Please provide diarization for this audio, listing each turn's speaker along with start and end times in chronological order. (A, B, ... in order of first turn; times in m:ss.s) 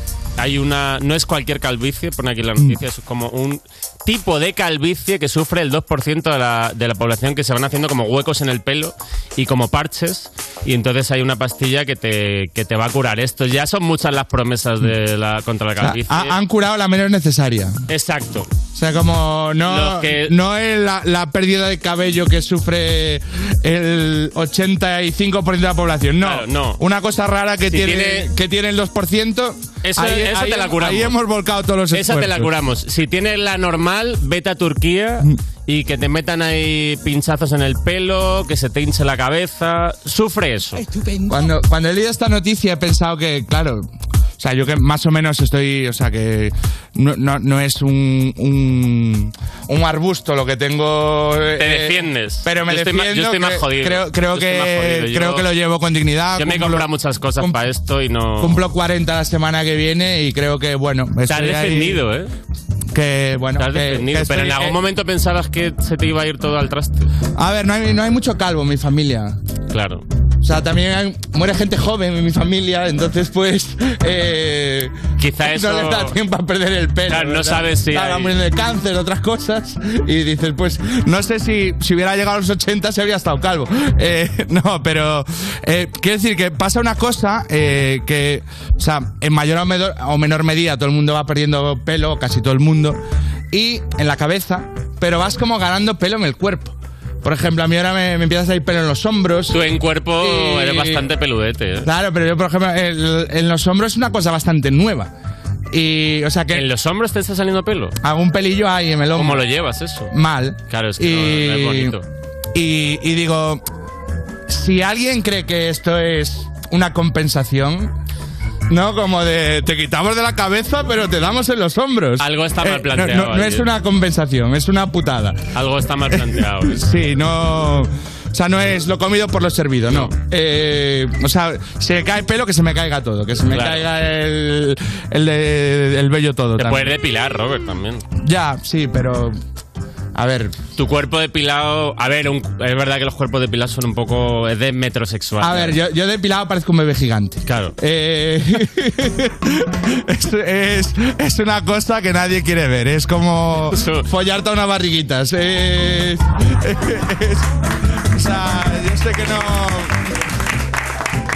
0:00.4-0:16.4 A
0:15.8-0:17.8 B
0:17.9-0:18.5 A
0:18.7-0:32.5 B
0:19.6-0:20.3 A
0:26.2-0:26.8 A
0:27.7-0:28.3 A
0:29.8-0:31.2 A
0:31.9-0:40.8 A
0:41.3-0:43.9 B
0:44.4-0:57.6 B
0:51.6-0:55.4 A
0:56.4-0:58.6 A
0:58.4-1:02.0 B
1:01.3-1:02.3 A
1:02.9-1:04.8 B
1:03.6-1:07.1 A
1:07.3-1:09.4 B
1:09.7-1:10.0 A
1:10.4-1:33.0 B
1:15.2-1:16.1 A
1:17.1-1:18.3 A
1:33.5-1:39.6 B
1:39.5-1:41.9 A
1:40.2-1:41.0 B
1:41.8-1:45.1 B
1:45.7-1:46.7 B
1:46.5-1:48.0 A
1:48.0-1:49.4 B
1:49.1-1:50.1 A
1:50.1-1:52.0 B
1:50.7-1:52.0 A
1:52.5-1:53.6 B
1:54.5-1:57.9 B
1:58.7-2:05.4 B
2:02.2-2:03.7 A
2:05.5-2:06.8 A
2:06.1-2:16.9 B
2:13.5-2:13.9 A
2:16.6-2:18.0 A
2:18.2-2:19.4 B
2:20.1-2:20.6 B
2:20.8-2:25.8 A
2:25.4-2:37.5 B
2:27.4-2:27.7 A
2:33.7-2:34.0 A
2:38.1-2:40.0 B